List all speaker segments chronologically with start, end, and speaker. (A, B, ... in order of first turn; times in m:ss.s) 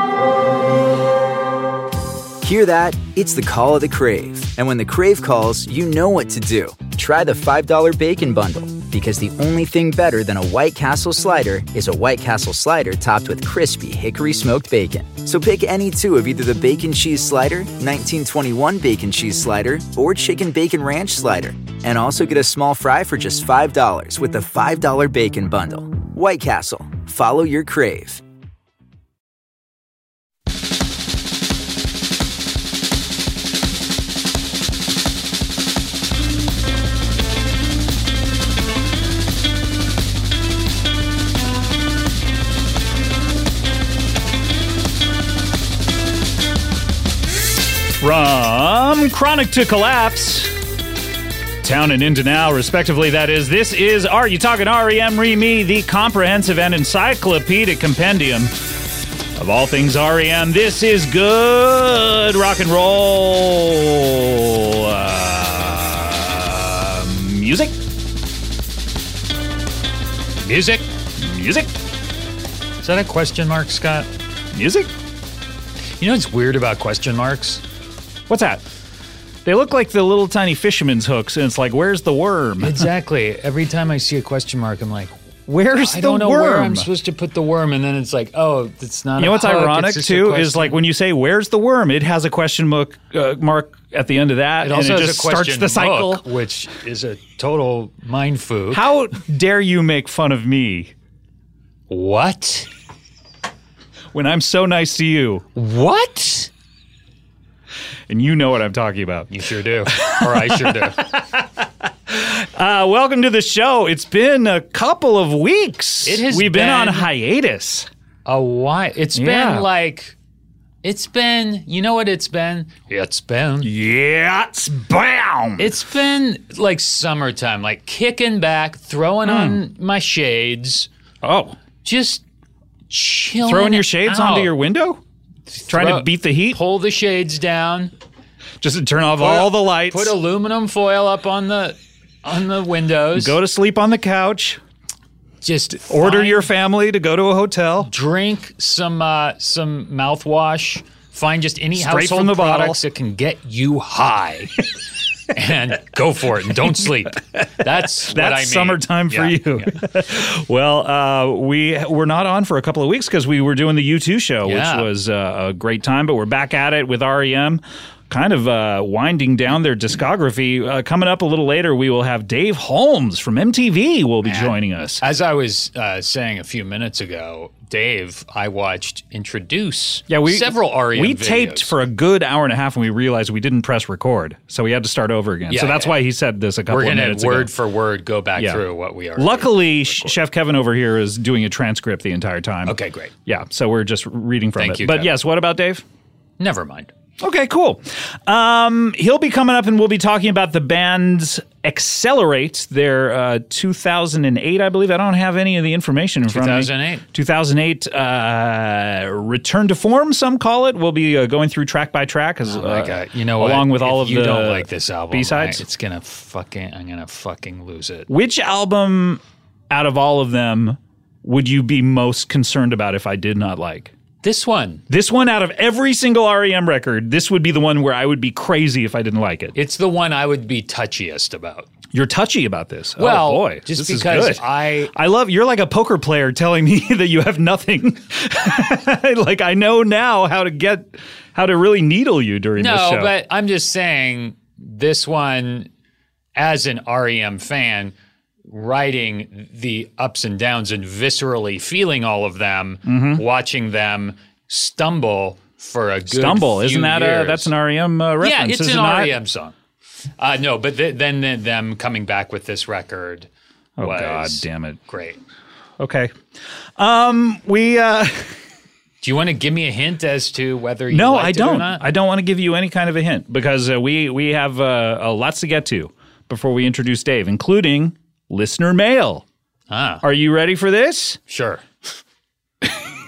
0:02.4-0:28.2 A
0:48.0-0:50.5 B
0:51.6-0:58.5 B
0:59.3-1:07.8 B
1:10.4-1:10.8 C
1:11.2-1:11.7 B
1:12.8-1:14.1 C
1:14.5-1:14.9 B
1:16.0-1:17.6 C
1:18.3-1:18.6 B
1:19.4-1:22.8 B
1:22.6-1:25.1 C
1:25.5-1:26.9 B
1:25.8-1:30.8 C
1:29.2-1:36.2 B
1:34.6-1:38.8 C
1:38.7-1:40.9 B
1:41.9-1:42.7 C
1:44.1-1:45.4 B
1:45.5-1:46.5 C
1:48.1-1:49.3 B
1:49.3-1:51.0 C
1:49.8-1:57.9 B
1:56.0-1:57.1 C
1:58.2-2:00.1 C
1:59.1-1:59.7 B
2:00.8-2:03.7 C
2:03.6-2:05.8 B
2:05.6-2:10.9 C
2:09.2-2:09.6 B
2:11.2-2:11.6 B
2:11.8-2:12.2 C
2:12.9-2:14.6 C
2:13.4-2:15.0 B
2:15.5-2:17.9 C
2:15.7-2:16.6 B
2:18.6-2:20.1 B
2:19.2-2:23.4 C
2:23.1-2:24.6 B
2:25.4-2:26.5 C
2:25.9-2:27.9 B
2:27.8-2:34.6 C
2:31.8-2:32.8 B
2:35.3-2:39.7 C
2:37.6-2:55.0 B
2:44.4-2:44.9 C
2:54.2-3:01.7 C
3:00.1-3:07.5 B
3:05.5-3:06.0 C
3:06.7-3:10.2 C
3:08.4-3:08.6 B
3:09.2-3:15.8 B
3:12.6-3:13.1 C
3:14.6-3:15.1 C
3:16.4-3:16.9 C
3:17.2-3:35.6 B
3:26.3-3:27.0 C
3:32.4-3:38.1 C
3:38.1-3:43.9 B
3:44.2-3:44.8 C
3:44.9-3:49.6 B
3:49.5-3:51.7 C
3:51.9-4:03.1 B
3:53.0-3:54.9 C
4:02.6-4:05.7 C
4:06.4-4:07.9 C
4:08.5-4:17.5 C
4:12.8-4:13.2 B
4:16.1-4:19.2 B
4:18.2-4:19.5 C
4:20.2-4:23.3 C
4:23.8-4:24.8 B
4:23.8-4:25.2 C
4:25.8-4:26.1 B
4:26.8-4:28.4 B
4:29.0-4:31.9 C
4:30.9-4:39.2 B
4:39.7-4:40.0 C
4:40.0-4:41.2 B
4:41.3-4:41.6 C